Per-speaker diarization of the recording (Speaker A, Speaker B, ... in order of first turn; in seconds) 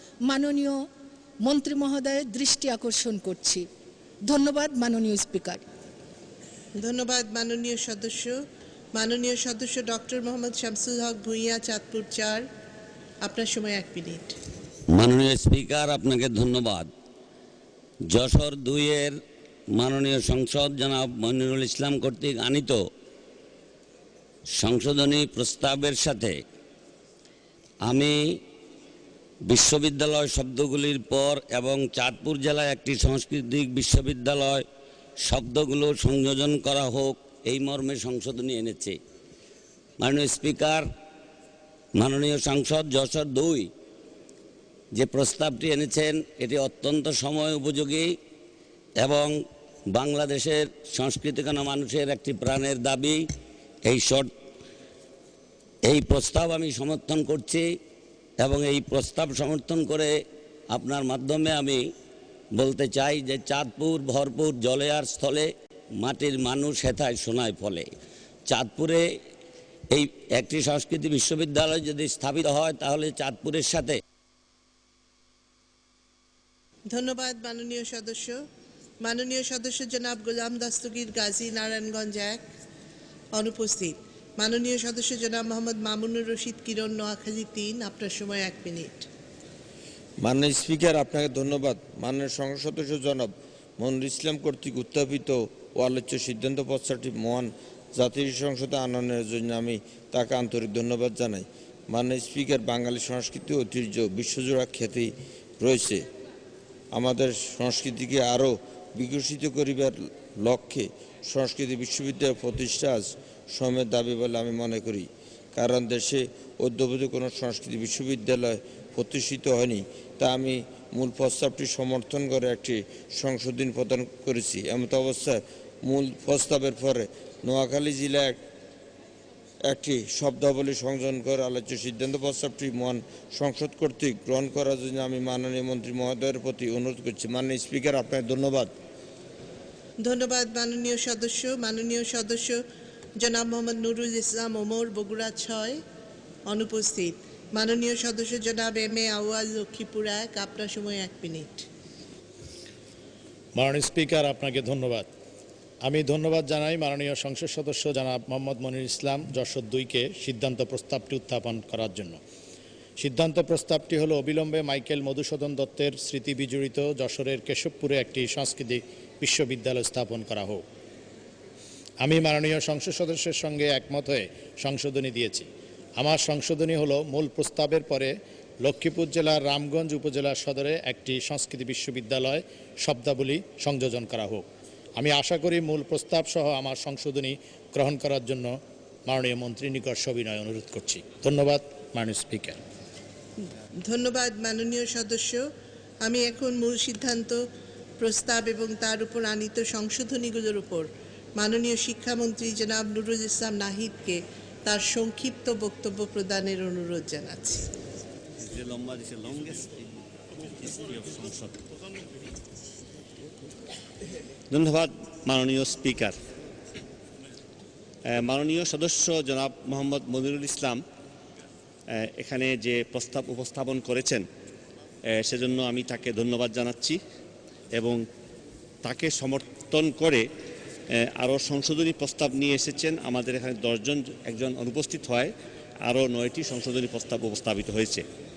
Speaker A: 0.3-0.8, 1.4-3.6, 4.3-5.6
Speaker B: 6.8-8.3, 8.9-12.4, 13.2-14.3, 76.9-78.4, 79.0-82.4, 83.3-89.1, 140.0-142.6, 143.2-145.8, 146.5-151.7, 193.8-195.4, 196.0-197.4, 198.0-207.7
Speaker C: 14.9-16.9, 18.1-19.1, 19.7-22.8, 24.6-26.4, 27.9-28.4, 29.5-34.6, 35.2-39.0, 40.0-40.9, 42.0-43.7, 45.0-48.1, 49.0-49.3, 49.9-53.2, 53.9-54.3, 55.9-57.6, 58.4-60.1, 60.7-61.8, 62.6-65.5, 66.0-67.9, 68.5-69.0, 69.9-74.0
Speaker D: 90.2-106.0, 106.9-128.4, 129.6-138.7
Speaker E: 153.6-155.1, 155.8-162.2, 163.0-170.6, 172.0-192.6
Speaker F: 208.4-209.8, 210.6-211.6, 214.5-216.1, 218.1-220.8, 222.0-224.2, 225.1-227.0, 227.7-228.0, 228.8-230.2, 231.2-235.3, 235.8-238.0